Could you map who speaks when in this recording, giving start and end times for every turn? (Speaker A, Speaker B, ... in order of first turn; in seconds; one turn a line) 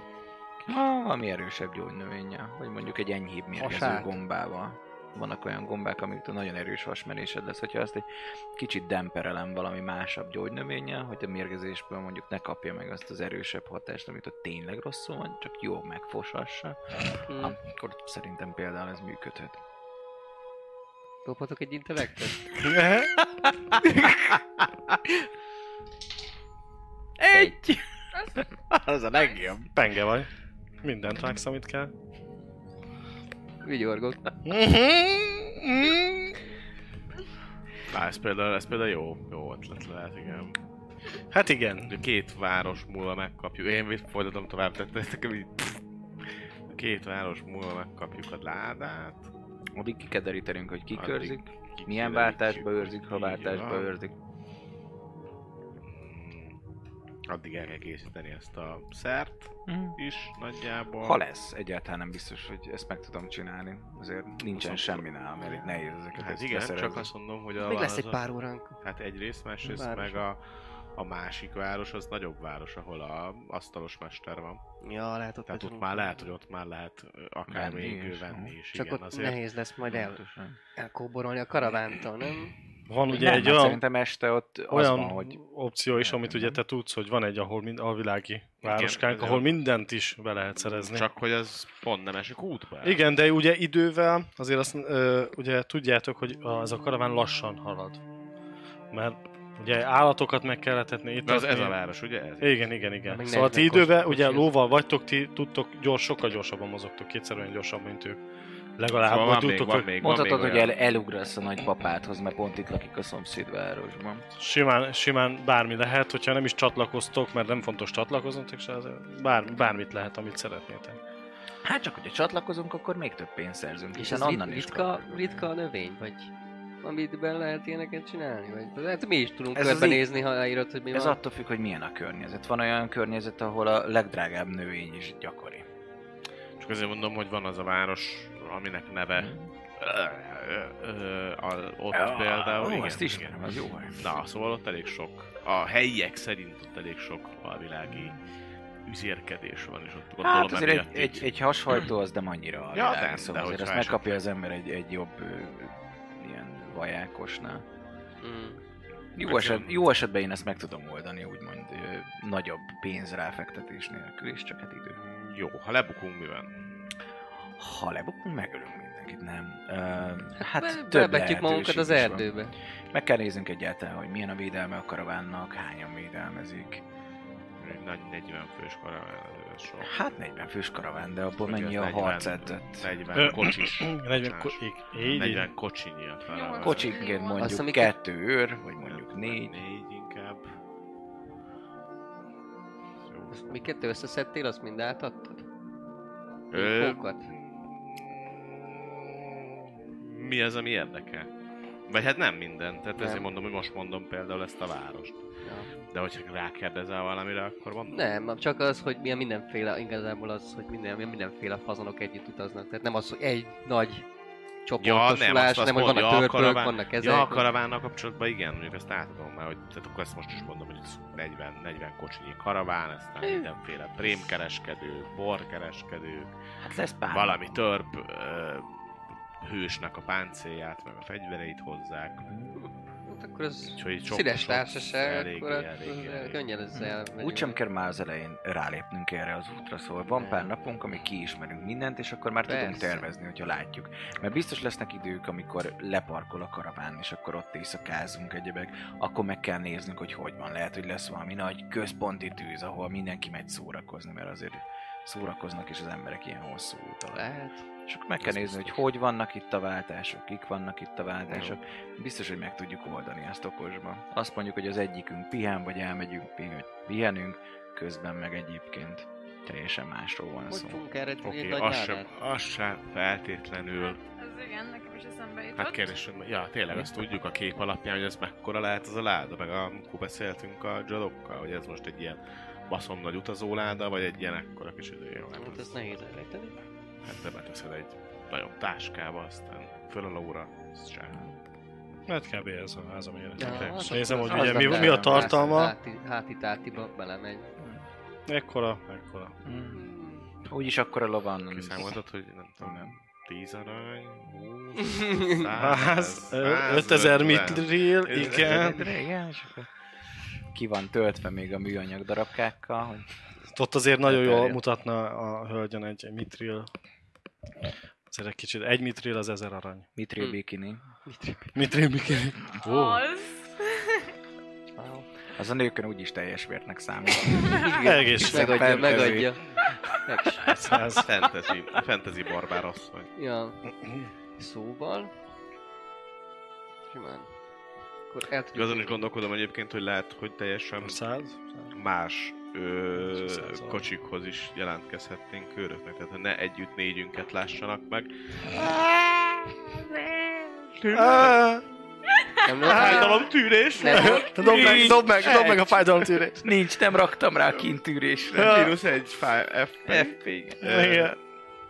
Speaker A: 0.7-19.6
Speaker B: 3.6-4.2
Speaker B: 17.3-17.6
Speaker B: 21.2-22.6
Speaker C: 22.6-23.1
Speaker B: 23.8-24.2
Speaker B: 27.2-27.8
Speaker D: 28.1-28.5
Speaker A: 28.7-29.6
Speaker D: 29.1-29.6
Speaker C: 29.7-30.3
Speaker C: 30.8-31.9
Speaker B: 33.6-34.2
Speaker C: 34.5-36.4
Speaker E: 37.9-40.6
Speaker C: 41.3-42.0
Speaker E: 41.9-45.8
Speaker E: 46.7-49.3
Speaker A: 49.8-54.1
Speaker E: 50.9-53.9
Speaker E: 55.9-56.6
Speaker E: 57.3-61.2
Speaker A: 59.7-60.0
Speaker A: 61.0-67.1
Speaker E: 64.5-65.0
Speaker E: 66.1-68.2
Speaker B: 67.6-68.8
Speaker E: 68.8-70.4
Speaker B: 69.7-70.2
Speaker E: 71.0-74.6
Speaker B: 74.8-76.2
Speaker E: 75.5-79.4
Speaker A: 77.5-78.5
Speaker B: 78.7-80.2
Speaker A: 79.9-80.6
Speaker B: 80.8-82.5
Speaker C: 82.9-83.8
Speaker A: 83.1-85.4
Speaker C: 84.7-91.1
Speaker A: 85.9-86.6
Speaker E: 88.6-89.6
Speaker E: 90.7-93.0
Speaker C: 92.8-98.0
Speaker C: 98.9-101.8
Speaker E: 101.3-102.6
Speaker C: 102.4-108.2
Speaker B: 103.1-104.5
Speaker C: 108.8-109.9
Speaker E: 109.0-110.7
Speaker A: 110.0-114.2
Speaker C: 114.4-121.0
Speaker A: 121.6-125.5
Speaker B: 124.0-126.3
Speaker B: 126.8-131.2
Speaker A: 129.5-130.1
Speaker A: 130.9-135.7
Speaker E: 136.6-143.4
Speaker A: 139.2-139.5
Speaker A: 141.9-144.1
Speaker E: 144.0-148.2
Speaker E: 148.9-151.3
Speaker A: 150.2-157.6
Speaker E: 152.7-154.2
Speaker B: 158.2-158.6
Speaker A: 159.2-165.0
Speaker E: 159.2-159.8
Speaker E: 165.0-166.5
Speaker A: 167.6-172.3
Speaker B: 170.4-172.6
Speaker A: 172.9-176.8
Speaker E: 177.6-179.9
Speaker A: 179.8-182.9
Speaker E: 181.4-187.0
Speaker C: 183.2-185.5
Speaker D: 186.3-187.6
Speaker A: 186.6-189.6
Speaker B: 187.4-187.9
Speaker E: 188.8-190.5
Speaker E: 193.0-193.6
Speaker B: 193.3-195.4
Speaker E: 196.5-201.3
Speaker B: 196.5-197.3
Speaker E: 201.9-205.2
Speaker B: 203.0-203.3
Speaker B: 205.4-205.7
Speaker E: 205.9-208.0
Speaker B: 207.9-214.1
Speaker B: 214.7-217.5
Speaker E: 214.8-226.3
Speaker A: 226.6-227.6
Speaker E: 227.1-232.3
Speaker A: 232.3-232.6
Speaker B: 232.6-237.6
Speaker E: 233.7-236.4
Speaker A: 236.7-257.3
Speaker B: 240.2-240.5
Speaker B: 242.5-243.1
Speaker B: 257.1-257.6
Speaker A: 257.9-270.8
Speaker E: 258.2-258.7
Speaker E: 261.3-261.6
Speaker B: 270.5-272.1
Speaker E: 271.2-274.0
Speaker D: 273.8-275.9
Speaker E: 275.6-285.8
Speaker B: 285.4-286.6
Speaker E: 287.0-291.2
Speaker C: 292.1-295.7
Speaker B: 293.4-297.5
Speaker E: 293.4-294.2
Speaker A: 294.2-295.5
Speaker C: 298.3-299.4
Speaker A: 299.4-299.9
Speaker B: 299.7-300.3
Speaker A: 300.4-301.9
Speaker E: 301.5-308.7
Speaker A: 302.6-302.9
Speaker B: 304.8-305.5
Speaker C: 305.6-308.9
Speaker A: 308.1-309.7
Speaker A: 310.5-313.1
Speaker C: 313.5-316.7
Speaker A: 314.0-314.6
Speaker C: 318.1-319.9
Speaker A: 320.0-320.8
Speaker B: 321.1-321.6
Speaker C: 321.6-323.1
Speaker D: 322.6-324.1
Speaker B: 324.8-325.1
Speaker A: 325.4-329.4
Speaker D: 327.3-327.8
Speaker B: 327.6-330.6
Speaker C: 327.8-329.0
Speaker C: 330.5-331.1
Speaker E: 331.0-333.1
Speaker B: 333.2-333.6
Speaker C: 333.8-334.1
Speaker B: 334.4-335.1
Speaker B: 336.9-337.3
Speaker B: 338.1-339.0
Speaker E: 338.5-341.0
Speaker C: 340.8-341.7
Speaker E: 341.7-351.4
Speaker C: 343.0-343.8
Speaker C: 350.9-351.6
Speaker B: 352.4-354.9
Speaker E: 352.6-355.6
Speaker C: 352.7-353.2
Speaker C: 353.9-356.5
Speaker A: 354.4-355.5
Speaker A: 356.4-358.8
Speaker E: 358.3-361.2
Speaker C: 358.4-358.7
Speaker A: 359.9-360.6
Speaker C: 360.6-361.1